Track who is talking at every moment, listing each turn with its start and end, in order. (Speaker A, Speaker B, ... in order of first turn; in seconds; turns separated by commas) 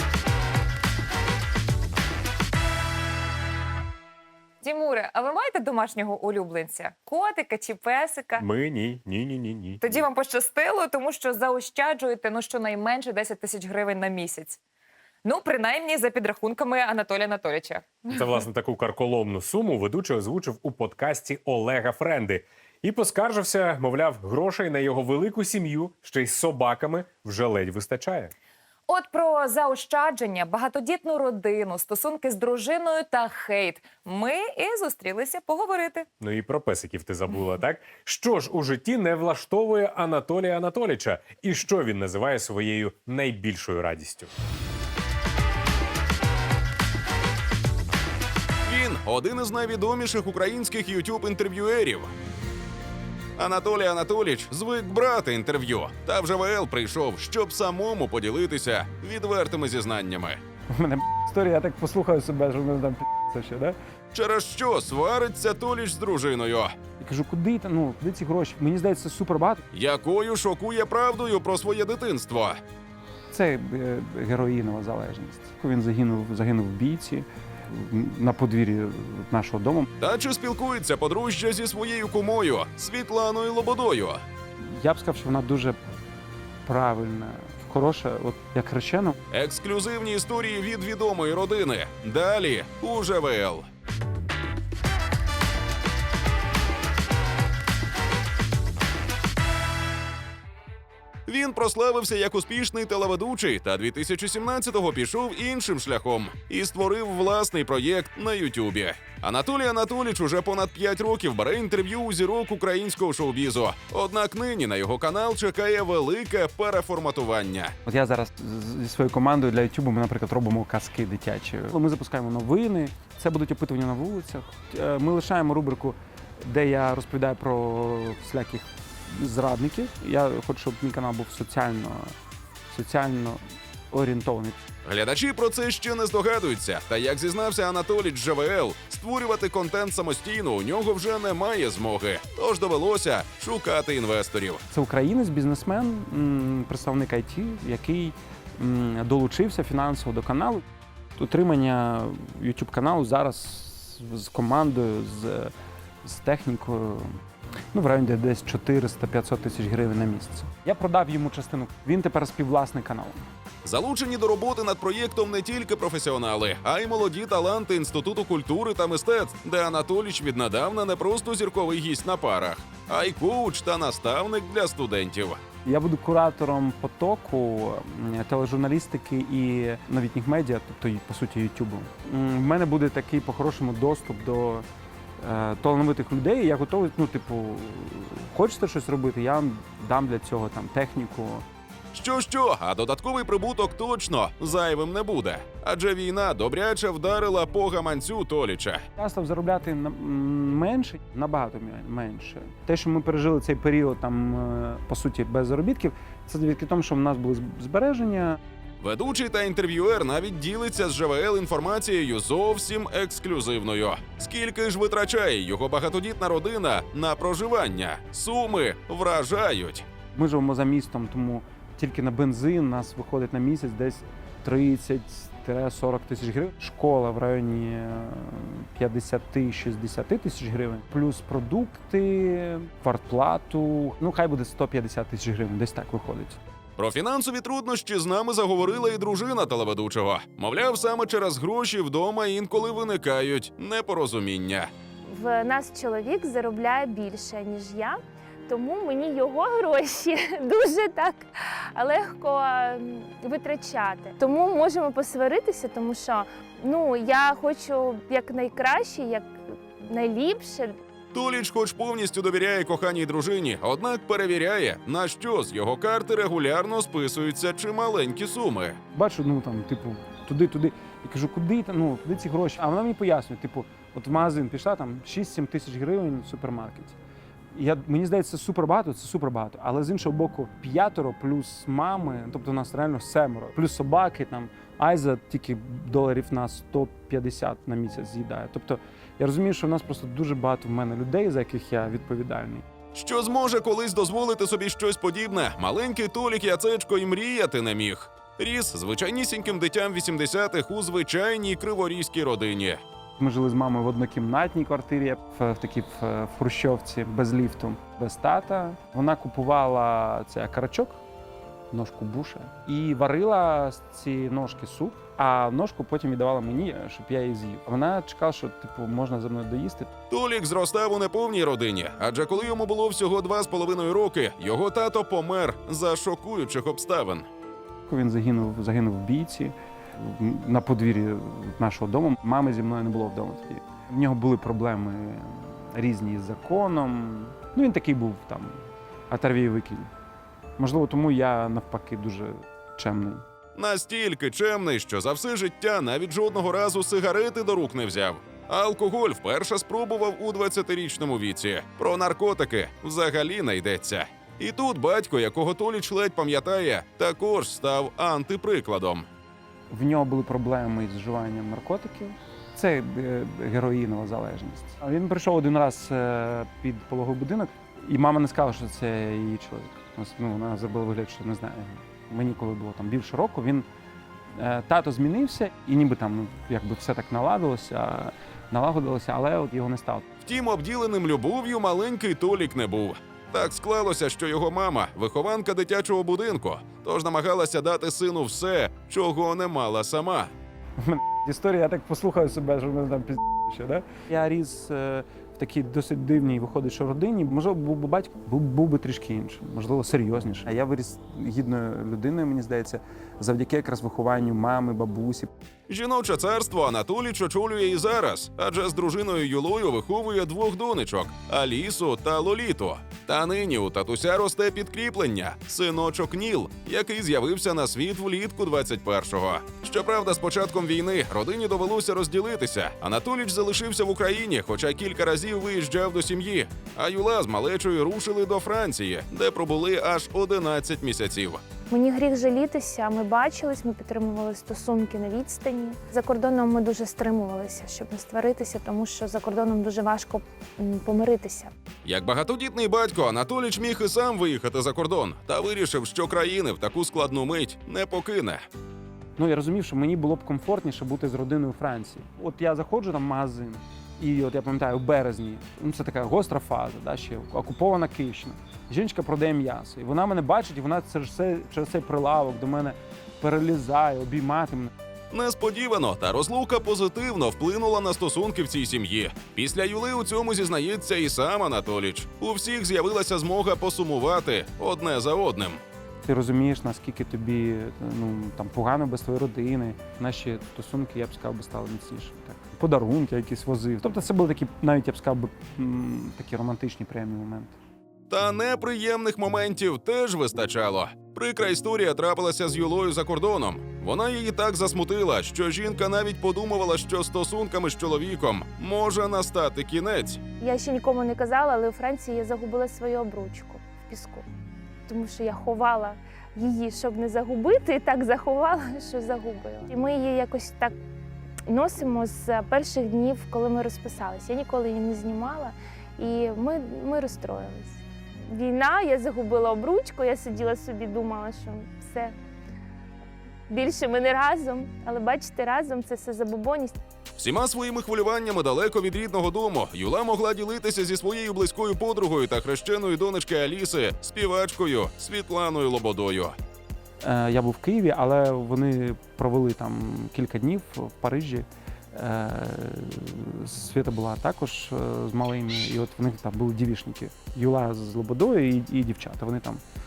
Speaker A: 4.6-8.4, Speaker B: 8.4-10.0, Speaker A: 9.8-14.6, Speaker A: 15.2-18.4, Speaker B: 18.2-28.3, Speaker A: 28.9-36.1, Speaker B: 36.2-44.3, Speaker C: 48.6-52.1, Speaker C: 53.4-60.4, Speaker D: 60.7-63.8, Speaker C: 64.1-66.8, Speaker D: 67.0-69.6, Speaker C: 69.7-72.6, Speaker D: 73.3-79.9, Speaker C: 80.0-84.2, Speaker D: 84.6-85.8, Speaker D: 86.7-89.2, Speaker C: 89.3-93.7, Speaker C: 101.3-117.8, Speaker D: 117.9-132.1, Speaker D: 132.7-134.6, Speaker C: 134.8-144.6, Speaker D: 144.7-150.6, Speaker D: 151.2-155.5, Speaker D: 156.1-157.2, Speaker D: 157.7-163.2, Speaker C: 163.6-175.4, Speaker D: 175.7-184.7, Speaker D: 185.2-191.4, Speaker C: 191.9-198.9, Speaker D: 199.0-208.4, Speaker C: 208.8-219.8, Speaker D: 220.1-236.4, Speaker C: 236.8-244.7, Speaker E: 245.1-260.7, Speaker C: 261.1-268.8, Speaker D: 268.9-277.0, Speaker D: 277.6-292.6, Speaker C: 292.9-302.8, Speaker D: 303.2-311.0, Speaker D: 311.7-319.9, Speaker C: 320.1-327.3, Speaker D: 327.9-339.9, Speaker D: 340.6-343.2, Speaker C: 343.6-359.1, Speaker D: 359.7-373.7, Speaker D: 374.4-380.1, Speaker C: 380.2-390.3, Speaker D: 390.8-405.3, Speaker C: 405.7-431.4, Speaker E: 431.7-441.5, Speaker C: 441.9-448.4, Speaker D: 449.2-464.7, Speaker C: 465.1-475.6, Speaker D: 476.0-487.6, Speaker C: 488.1-500.2, Speaker E: 500.4-504.2, Speaker E: 504.9-510.7, Speaker E: 511.5-522.1, Speaker E: 523.5-526.8, Speaker C: 527.2-536.4, Speaker D: 537.0-549.6